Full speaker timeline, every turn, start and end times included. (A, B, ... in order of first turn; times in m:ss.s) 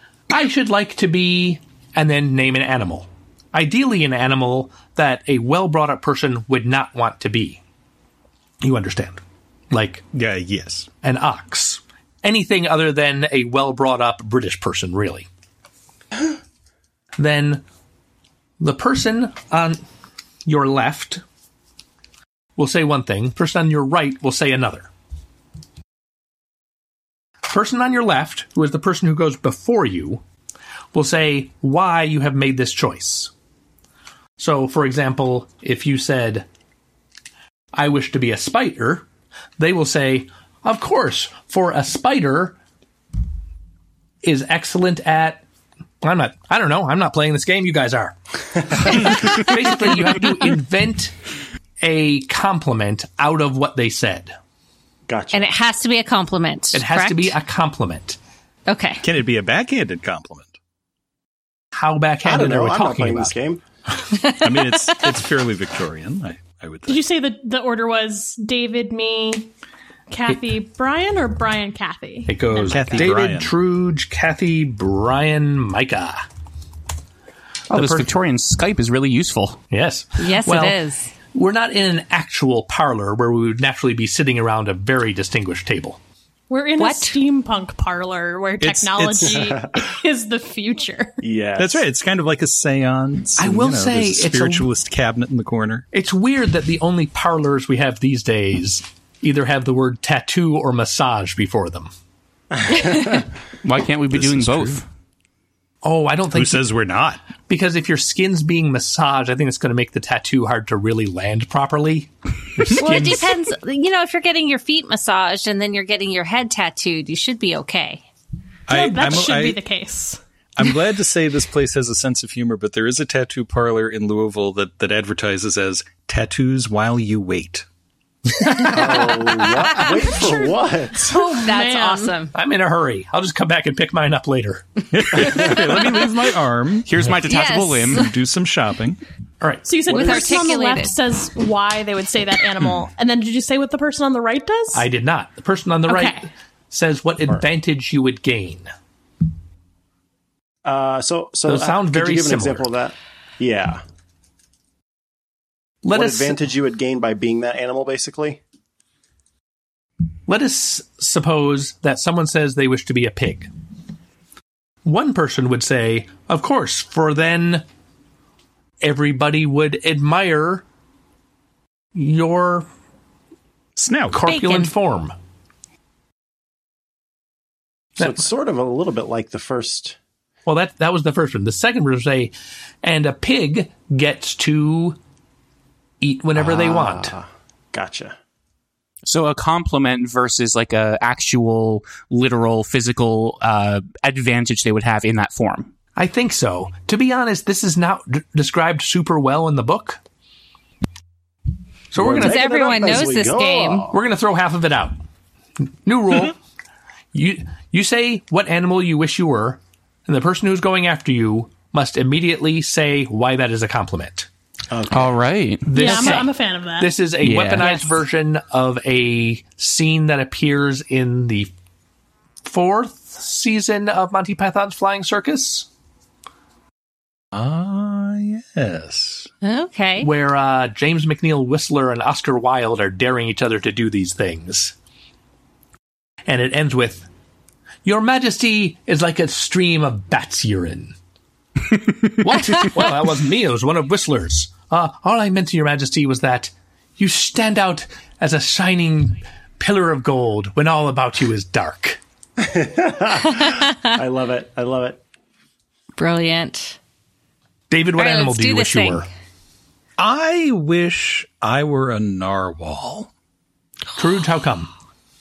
0:00.3-0:07.6 A
0:08.6-0:10.0 A
0:10.1-0:10.9 B
0:11.0-0:15.3 A
0:17.2-0:17.6 A
0:18.6-0:19.8 A
0:20.4-0:21.2 A
0:22.6-0:24.9 A
0:27.4-0:30.2 A
0:30.9-0:33.3 A
0:34.4-0:36.4 A
0:37.7-0:39.0 A
0:39.6-0:42.6 A
0:44.2-0:45.4 A
0:46.0-0:48.2 A
0:48.7-0:51.2 A
0:51.8-0:54.3 A
0:55.1-0:55.5 C
0:55.3-0:57.3 D
0:56.7-0:58.2 A
0:58.7-0:59.0 D
0:59.0-1:00.5 B
1:01.7-1:03.4 A
1:02.2-1:03.6 C
1:04.2-1:04.7 D
1:04.4-1:07.0 B
1:06.9-1:09.5 E
1:10.1-1:13.1 E
1:12.2-1:16.2 A
1:12.7-1:13.5 B
1:17.7-1:19.6 F
1:17.7-1:18.1 A
1:19.7-1:20.8 A
1:20.2-1:21.1 D
1:21.3-1:26.0 A
1:26.5-1:31.2 E
1:26.8-1:27.2 D
1:28.6-1:29.5 B
1:29.4-1:29.8 C
1:31.2-1:31.8 C
1:31.6-1:35.8 B
1:33.4-1:34.7 A
1:35.9-1:41.9 A
1:42.6-1:43.0 C
1:42.9-1:43.2 D
1:43.6-1:44.8 F
1:44.1-1:44.8 B
1:45.8-1:46.7 A
1:46.3-1:47.2 B
1:47.5-1:53.4 A
1:52.7-1:58.0 D
1:58.7-1:59.6 B
1:58.7-2:00.2 E
2:00.6-2:07.6 B
2:08.6-2:11.2 C
2:11.1-2:12.3 D
2:11.2-2:12.2 E
2:12.3-2:14.6 A
2:14.9-2:17.2 B
2:15.2-2:15.6 D
2:16.8-2:18.1 F
2:17.2-2:18.0 D
2:17.9-2:19.0 B
2:19.4-2:19.7 A
2:19.6-2:24.8 E
2:19.9-2:20.9 D
2:19.9-2:20.2 C
2:24.7-2:28.7 A
2:25.9-2:26.3 E
2:30.6-2:33.8 C
2:31.4-2:32.7 A
2:35.8-2:36.4 A
2:35.9-2:38.4 C
2:40.3-2:43.5 A
2:44.8-2:47.6 A
2:48.8-2:50.6 A
2:51.9-2:52.7 A
2:53.8-2:54.2 B
2:54.1-2:55.1 A
2:54.3-2:54.6 D
2:58.0-3:00.0 C
3:00.4-3:05.0 A
3:06.0-3:07.1 A
3:06.4-3:08.2 C
3:09.0-3:15.7 F
3:16.0-3:20.0 A
3:21.9-3:22.5 A
3:22.0-3:23.9 C
3:22.2-3:23.9 D
3:23.9-3:24.9 A
3:25.8-3:26.4 A
3:27.1-3:34.3 A
3:34.7-3:35.1 C
3:34.9-3:36.2 F
3:35.6-3:41.5 A
3:35.7-3:37.0 E
3:37.2-3:37.7 F
3:42.4-3:45.7 A
3:47.3-3:49.3 B
3:49.4-3:50.1 D
3:50.0-3:54.7 A
3:56.3-3:57.1 A
3:57.8-4:00.9 A
4:02.0-4:12.0 A
4:12.4-4:15.0 C
4:16.0-4:16.8 D
4:17.7-4:19.1 A
4:18.0-4:19.1 D
4:20.0-4:23.1 B
4:24.0-4:24.7 A